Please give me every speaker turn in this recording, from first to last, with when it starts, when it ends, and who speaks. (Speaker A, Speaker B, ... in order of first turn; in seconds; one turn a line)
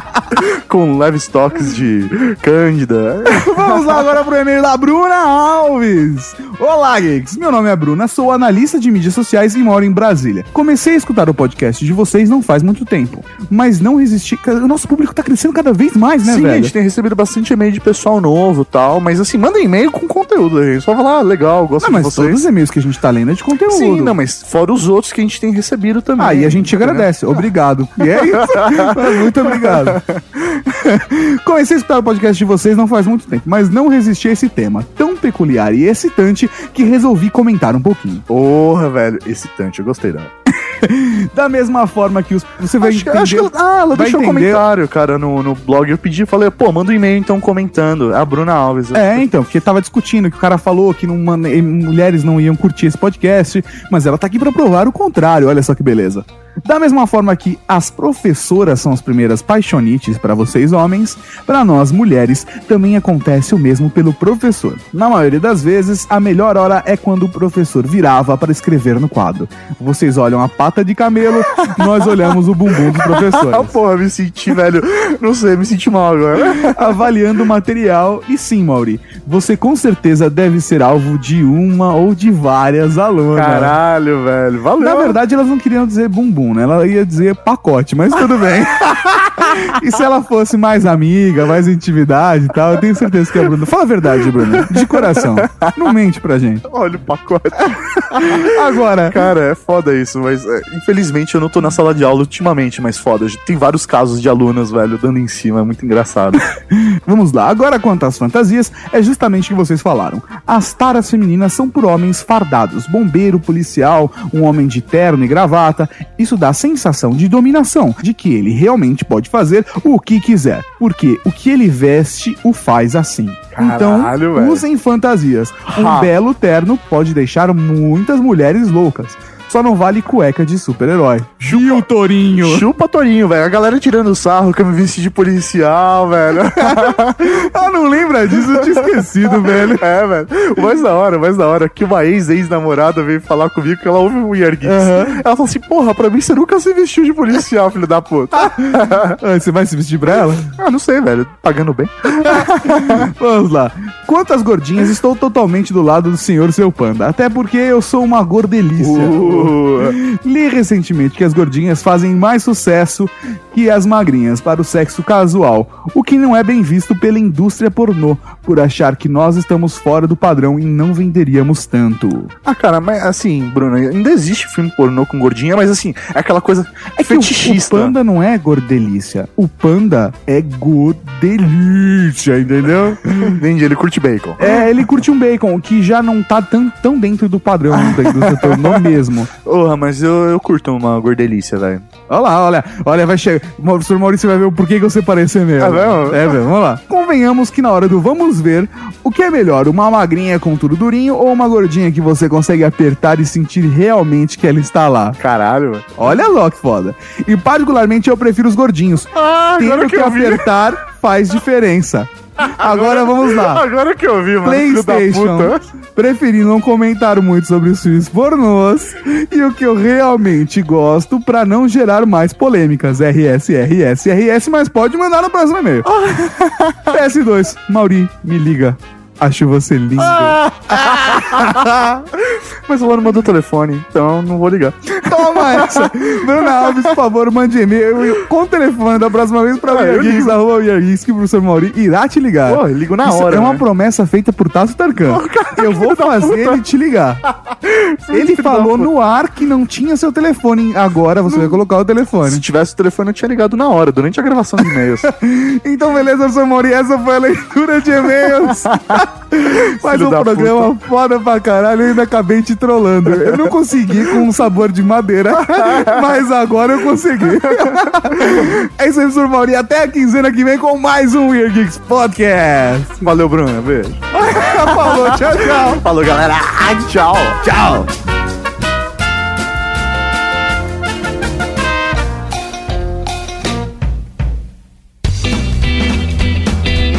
Speaker A: 0.4-3.9
Speaker B: 3.3-16.7
Speaker A: 16.2-22.4
Speaker B: 21.8-24.2
Speaker A: 23.7-27.4
Speaker B: 26.2-30.0
Speaker A: 28.1-30.4
Speaker B: 30.7-38.2
Speaker A: 38.3-40.3
Speaker B: 40.8-44.6
Speaker A: 42.8-49.2
Speaker B: 48.9-73.8
Speaker A: 73.1-76.9
Speaker B: 76.5-83.8
Speaker A: 83.3-85.2
Speaker B: 84.8-96.6
Speaker A: 94.5-95.9
Speaker A: 96.7-98.4
Speaker B: 98.2-99.3
Speaker A: 99.1-106.4
Speaker B: 106.7-132.7
Speaker A: 123.5-124.6
Speaker A: 125.7-126.1
Speaker A: 131.4-137.5
Speaker B: 136.7-139.8
Speaker A: 138.5-149.2
Speaker B: 144.6-145.2
Speaker B: 148.4-150.5
Speaker A: 150.6-153.1
Speaker B: 152.2-172.3
Speaker A: 158.8-160.0
Speaker A: 172.4-177.9
Speaker B: 177.0-183.4
Speaker A: 183.3-184.7
Speaker B: 184.4-189.3
Speaker A: 187.7-191.8
Speaker B: 192.1-205.2
Speaker A: 195.6-196.3
Speaker A: 205.2-206.2
Speaker B: 206.0-213.6
Speaker A: 209.1-210.4
Speaker A: 212.4-215.6
Speaker B: 214.4-225.9
Speaker A: 225.8-226.9
Speaker B: 226.9-230.4
Speaker A: 230.0-235.9
Speaker B: 231.1-231.4
Speaker B: 235.1-247.2
Speaker A: 236.5-236.8
Speaker A: 239.6-240.4
Speaker A: 242.4-243.6
Speaker A: 245.1-246.6
Speaker A: 247.6-248.9
Speaker B: 248.1-252.4
Speaker A: 251.3-251.6
Speaker A: 252.2-255.1
Speaker B: 255.1-273.0
Speaker A: 258.4-259.0
Speaker A: 259.8-260.7
Speaker A: 265.5-266.0
Speaker A: 267.4-268.5
Speaker A: 273.0-277.4
Speaker B: 274.2-275.8
Speaker B: 277.4-277.9